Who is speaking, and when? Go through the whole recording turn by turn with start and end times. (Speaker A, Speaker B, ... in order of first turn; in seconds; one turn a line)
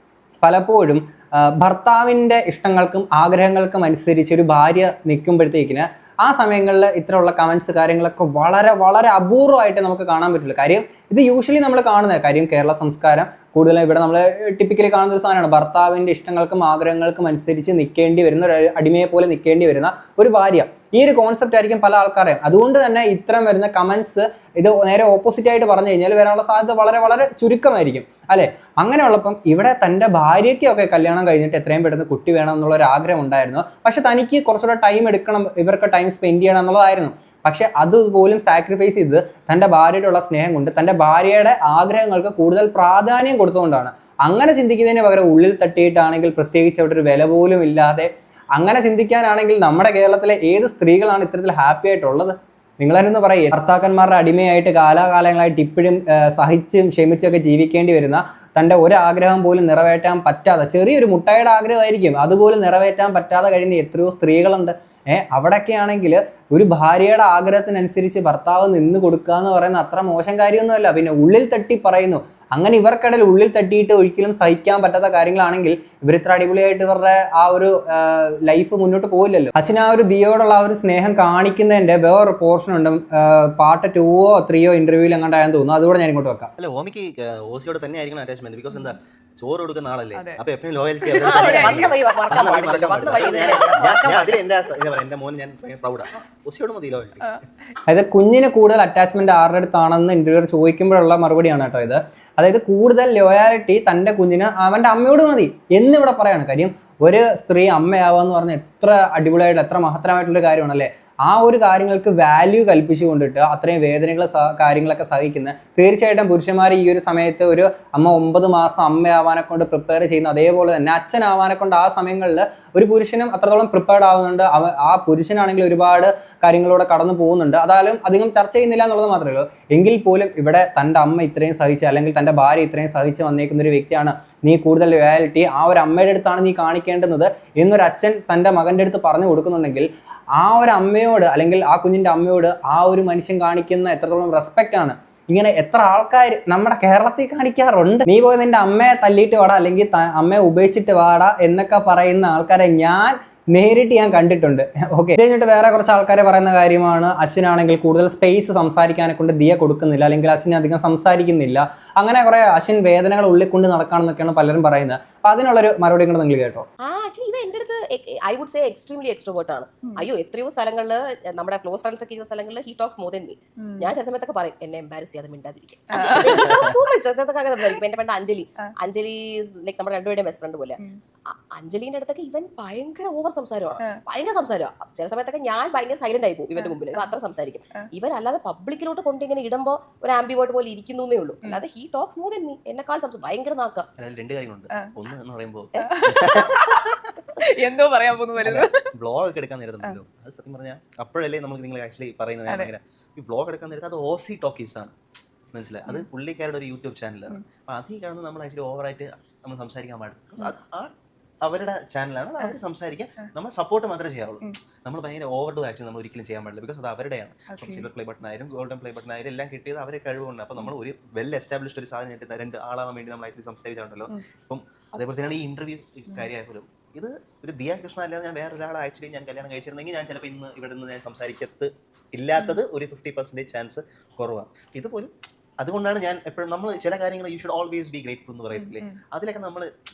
Speaker A: 0.4-86.5
Speaker B: 86.6-97.4
Speaker C: 90.1-90.4
Speaker C: 91.0-91.9
Speaker D: 91.2-94.5
Speaker A: 97.9-166.6
Speaker D: 166.8-180.8
Speaker C: 173.6-173.9
Speaker C: 175.9-176.8
Speaker D: 181.3-193.9
Speaker C: 186.6-187.1
Speaker B: 194.0-196.9
Speaker C: 195.8-198.8
Speaker D: 195.8-196.4
Speaker B: 198.4-204.9
Speaker C: 202.5-202.7
Speaker B: 205.5-239.7
Speaker C: 217.5-217.9
Speaker C: 238.5-239.0